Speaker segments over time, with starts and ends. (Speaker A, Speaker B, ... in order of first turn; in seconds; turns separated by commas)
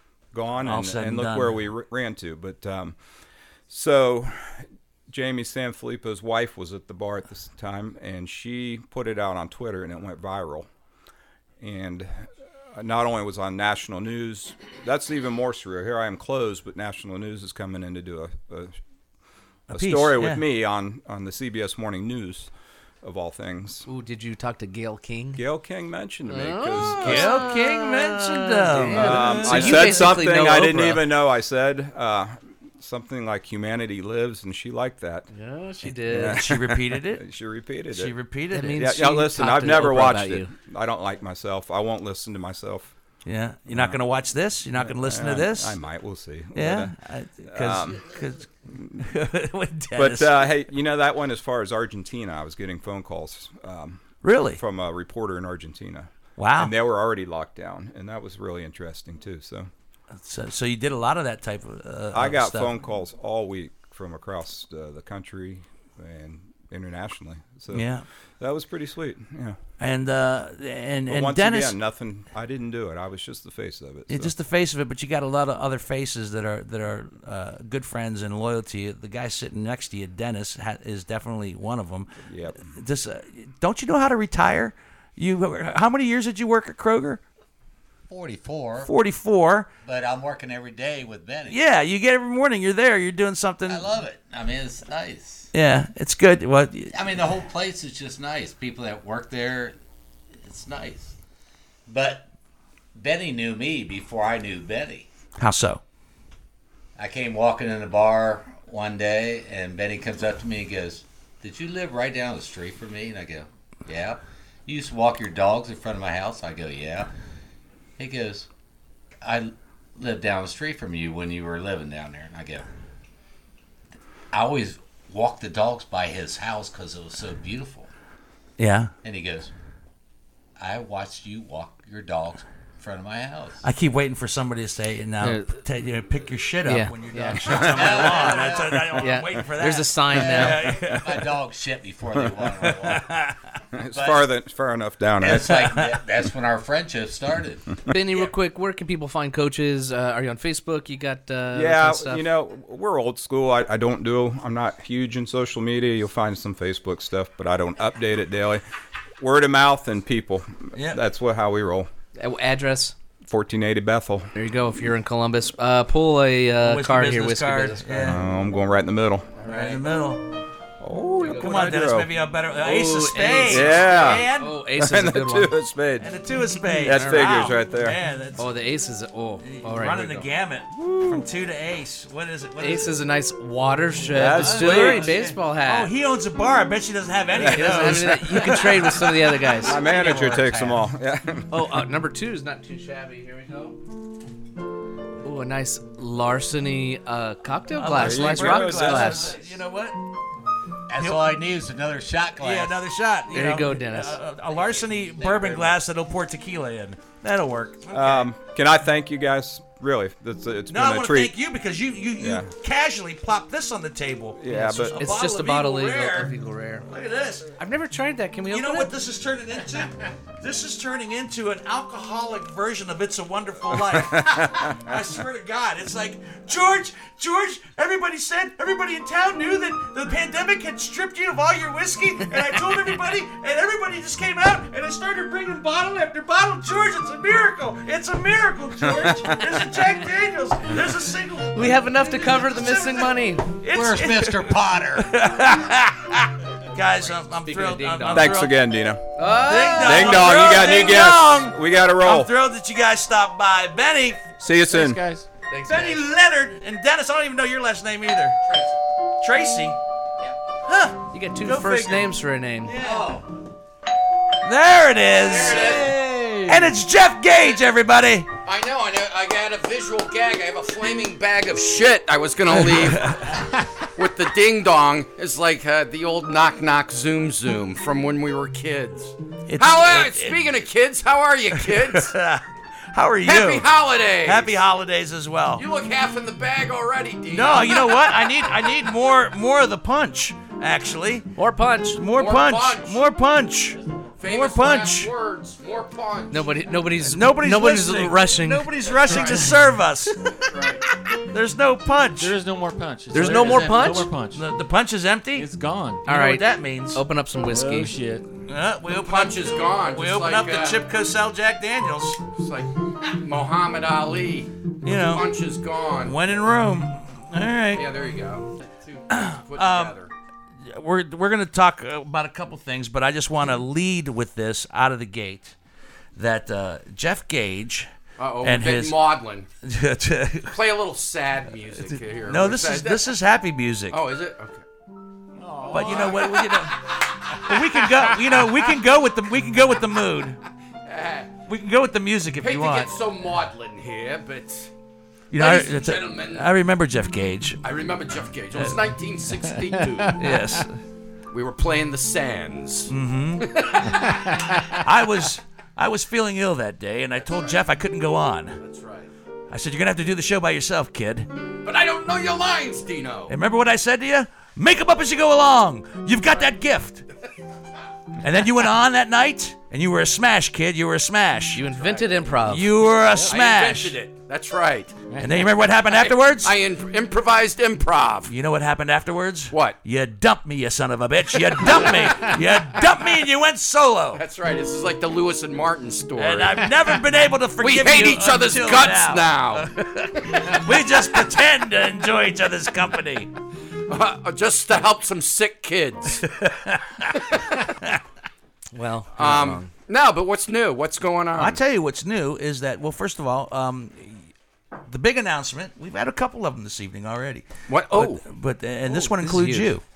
Speaker A: 0.3-3.0, Speaker B: 0.6-1.7, Speaker A: 3.7-10.7, Speaker A: 11.6-18.7, Speaker B: 19.7-20.4, Speaker A: 19.7-22.5, Speaker A: 23.0-23.9, Speaker C: 23.9-25.4, Speaker A: 25.3-27.5, Speaker C: 26.3-31.1, Speaker B: 26.8-30.2, Speaker A: 28.7-35.3, Speaker C: 35.3-36.4, Speaker A: 36.0-38.1, Speaker B: 36.2-37.2, Speaker B: 37.9-38.9, Speaker C: 38.5-40.5, Speaker A: 38.7-42.9, Speaker B: 43.2-45.8, Speaker A: 43.7-44.0, Speaker A: 44.8-46.9, Speaker B: 46.5-50.5, Speaker A: 47.5-48.1, Speaker A: 48.7-49.0, Speaker A: 50.0-59.7, Speaker B: 54.2-54.6, Speaker B: 56.4-56.7, Speaker B: 60.1-62.7, Speaker A: 62.1-69.6, Speaker B: 67.7-68.0, Speaker B: 69.8-71.8, Speaker A: 71.1-74.3, Speaker B: 74.1-87.2, Speaker A: 82.2-82.7, Speaker D: 88.1-88.9, Speaker B: 88.8-89.7, Speaker D: 89.8-91.6, Speaker B: 91.5-93.9, Speaker D: 93.7-95.5, Speaker B: 95.5-96.9, Speaker D: 96.9-99.8, Speaker D: 100.4-101.2, Speaker D: 101.9-102.3, Speaker D: 102.9-105.1, Speaker B: 105.4-105.8, Speaker D: 107.0-117.1, Speaker D: 118.0-118.5, Speaker D: 119.2-122.7, Speaker D: 124.3-127.9, Speaker B: 128.6-128.9, Speaker D: 129.0-129.5, Speaker D: 130.6-133.6, Speaker B: 133.6-141.2, Speaker C: 135.2-135.5, Speaker C: 136.7-138.3, Speaker A: 137.5-137.9, Speaker D: 137.5-138.8, Speaker C: 138.9-140.7, Speaker D: 140.1-143.1, Speaker B: 142.6-143.4, Speaker A: 143.7-145.8, Speaker D: 143.9-144.4, Speaker D: 145.2-147.7, Speaker C: 147.9-152.2, Speaker A: 151.5-158.6, Speaker A: 159.2-161.9, Speaker B: 160.7-161.0, Speaker C: 162.2-162.9, Speaker A: 163.2-164.3, Speaker C: 164.3-168.2, Speaker B: 166.6-168.2, Speaker A: 168.0-169.4, Speaker B: 169.4-170.3, Speaker A: 170.8-172.1, Speaker C: 171.2-171.8, Speaker B: 171.3-174.6, Speaker C: 172.6-175.6, Speaker A: 173.5-176.1, Speaker B: 176.0-178.5, Speaker C: 176.6-177.5, Speaker A: 176.8-178.0, Speaker C: 178.4-180.3, Speaker B: 179.4-182.9, Speaker A: 180.7-181.2, Speaker C: 182.6-185.9, Speaker A: 184.1-185.1, Speaker B: 184.3-190.7, Speaker A: 187.4-188.6, Speaker C: 187.4-189.8, Speaker A: 189.6-191.5, Speaker D: 190.0-190.7, Speaker C: 191.5-193.8, Speaker C: 195.2-199.3, Speaker B: 197.7-200.0, Speaker A: 198.0-199.3, Speaker D: 200.9-202.8, Speaker B: 201.0-201.4, Speaker B: 202.4-208.3, Speaker C: 203.3-204.2, Speaker A: 207.9-211.3, Speaker B: 210.7-216.3, Speaker A: 212.2-212.5, Speaker A: 214.4-215.0, Speaker C: 214.5-216.9, Speaker B: 216.8-217.5, Speaker C: 217.6-218.9, Speaker B: 218.5-248.6, Speaker A: 224.1-224.7, Speaker C: 241.5-243.5, Speaker D: 243.7-245.0, Speaker C: 247.4-248.4, Speaker A: 248.1-249.0, Speaker C: 249.2-250.7, Speaker B: 249.4-254.2, Speaker A: 249.8-252.3, Speaker A: 254.4-255.0, Speaker C: 255.5-256.0, Speaker B: 255.7-258.4, Speaker B: 259.2-259.8, Speaker B: 260.6-262.1, Speaker C: 261.1-262.8, Speaker B: 262.6-263.1, Speaker B: 264.4-268.3, Speaker E: 265.2-265.9, Speaker E: 268.4-273.1, Speaker B: 272.6-273.3, Speaker E: 273.8-282.1, Speaker B: 279.5-280.4, Speaker B: 281.6-283.7, Speaker E: 283.2-284.5, Speaker B: 284.2-285.6, Speaker E: 285.5-288.7, Speaker B: 287.3-291.3, Speaker C: 291.4-292.0, Speaker B: 291.9-295.1, Speaker E: 292.1-293.0, Speaker E: 294.2-296.6, Speaker C: 296.3-299.4, Speaker B: 297.0-300.3, Speaker E: 298.9-299.5, Speaker E: 300.5-300.8, Speaker B: 301.3-302.3, Speaker F: 302.2-304.4, Speaker C: 303.1-304.1, Speaker B: 303.2-303.5, Speaker B: 304.3-305.5, Speaker F: 305.4-306.0, Speaker B: 306.0-307.0, Speaker C: 306.1-307.9, Speaker F: 307.5-308.2, Speaker B: 308.5-312.2, Speaker E: 309.0-310.8, Speaker E: 312.3-316.1, Speaker B: 314.8-315.2, Speaker B: 316.0-317.9, Speaker E: 317.7-320.1, Speaker B: 319.1-319.9, Speaker B: 320.6-325.6, Speaker B: 326.1-327.9, Speaker E: 328.2-329.5, Speaker B: 328.4-329.0, Speaker B: 329.6-330.5, Speaker E: 330.5-333.1, Speaker B: 331.9-334.0, Speaker E: 333.9-334.6, Speaker F: 335.6-335.8, Speaker E: 335.6-336.6, Speaker B: 335.7-340.4, Speaker E: 340.8-341.3, Speaker B: 341.4-342.9, Speaker E: 342.4-344.7, Speaker B: 345.3-347.6, Speaker E: 345.3-346.5, Speaker E: 347.6-350.2, Speaker B: 350.2-350.8, Speaker E: 351.3-354.1, Speaker B: 352.9-358.6, Speaker E: 357.3-357.6, Speaker E: 358.6-359.1, Speaker B: 359.5-361.3, Speaker E: 361.6-363.3, Speaker B: 363.3-367.0, Speaker B: 368.2-371.6, Speaker C: 371.5-372.7, Speaker E: 371.8-372.1, Speaker B: 372.5-373.9, Speaker E: 373.2-375.0, Speaker B: 375.2-376.5, Speaker E: 375.9-378.3, Speaker B: 378.3-384.2, Speaker E: 379.5-379.8, Speaker E: 384.1-386.7, Speaker B: 386.2-393.3, Speaker E: 387.6-389.7, Speaker E: 393.9-396.3, Speaker B: 396.2-398.0, Speaker E: 397.1-397.5, Speaker C: 398.7-399.7, Speaker E: 399.1-401.6, Speaker B: 401.4-404.3, Speaker B: 404.9-409.8, Speaker E: 407.7-408.2, Speaker C: 408.9-409.7